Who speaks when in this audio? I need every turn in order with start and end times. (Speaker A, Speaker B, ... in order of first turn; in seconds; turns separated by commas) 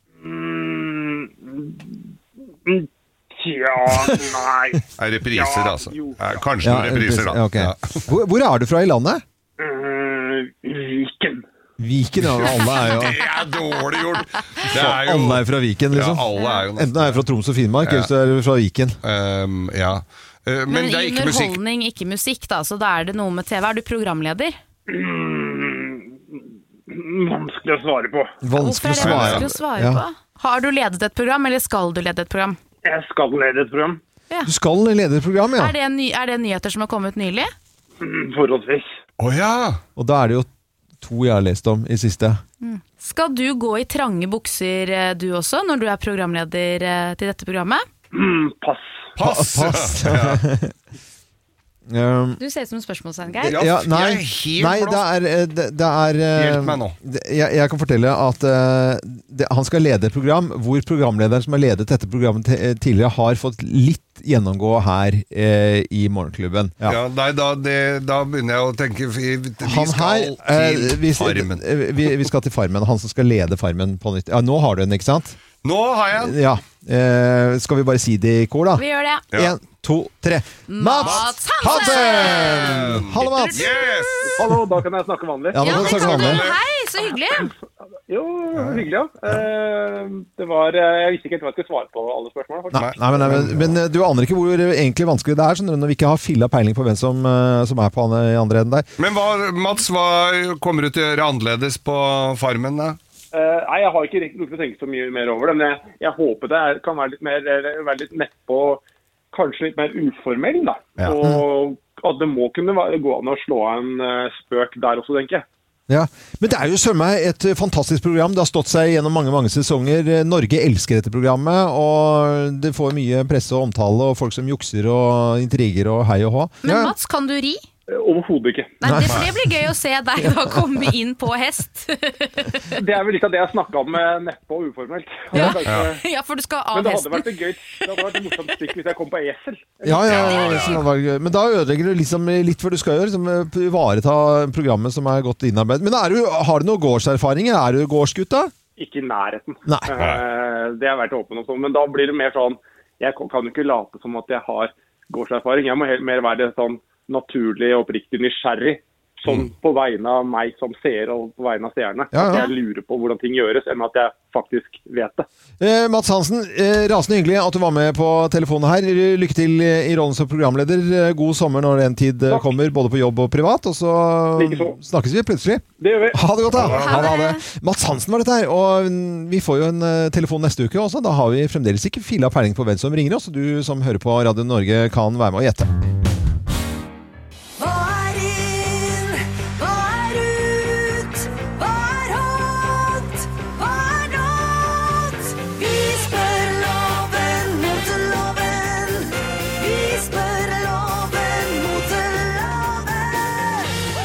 Speaker A: 0.2-2.1, Speaker A: 2.6-6.4, Speaker B: 5.0-8.1, Speaker C: 6.6-9.2, Speaker A: 9.6-11.4, Speaker C: 11.8-13.2, Speaker B: 12.3-17.2, Speaker C: 14.7-19.0, Speaker D: 16.4-16.6, Speaker B: 17.8-18.1, Speaker B: 19.0-21.6, Speaker D: 20.7-24.6, Speaker A: 24.9-28.4, Speaker C: 28.4-30.0, Speaker D: 28.6-32.6, Speaker B: 29.0-29.4, Speaker A: 32.8-34.0, Speaker C: 34.4-35.7, Speaker D: 35.6-37.5, Speaker A: 38.0-38.9, Speaker B: 39.2-39.8, Speaker C: 40.0-40.5, Speaker C: 41.0-42.4, Speaker D: 42.6-47.9, Speaker A: 48.1-49.1, Speaker B: 49.2-50.4, Speaker C: 49.2-50.7, Speaker C: 51.9-52.4, Speaker D: 52.4-53.6, Speaker B: 53.4-55.0, Speaker C: 53.4-67.0, Speaker B: 56.3-56.9, Speaker B: 66.8-72.2, Speaker C: 69.6-75.4, Speaker B: 75.6-76.4, Speaker C: 76.1-83.8, Speaker D: 78.8-79.2, Speaker D: 80.7-84.3, Speaker B: 81.0-84.2, Speaker A: 84.3-85.7, Speaker C: 85.5-86.4, Speaker B: 85.6-86.6, Speaker D: 85.6-87.5, Speaker A: 88.1-93.3, Speaker B: 88.6-88.8, Speaker B: 92.7-93.8, Speaker C: 92.7-98.9, Speaker B: 99.0-103.0, Speaker A: 103.3-115.5, Speaker C: 115.9-126.9, Speaker D: 126.6-127.6, Speaker A: 127.9-128.8, Speaker D: 128.8-132.7, Speaker C: 128.8-129.2, Speaker C: 130.2-130.8, Speaker A: 132.7-136.0, Speaker D: 135.3-138.5, Speaker A: 136.7-140.2, Speaker C: 139.8-148.5, Speaker B: 140.1-140.8, Speaker D: 140.2-140.8, Speaker A: 148.8-165.3, Speaker C: 149.7-149.9, Speaker B: 150.0-150.2, Speaker B: 159.2-159.5, Speaker C: 162.1-162.5, Speaker C: 165.6-185.7, Speaker A: 174.4-174.8, Speaker A: 175.8-176.8, Speaker D: 176.7-177.4, Speaker E: 189.7-190.3, Speaker D: 191.8-192.3, Speaker D: 193.7-194.3, Speaker E: 197.2-198.9, Speaker E: 199.6-202.8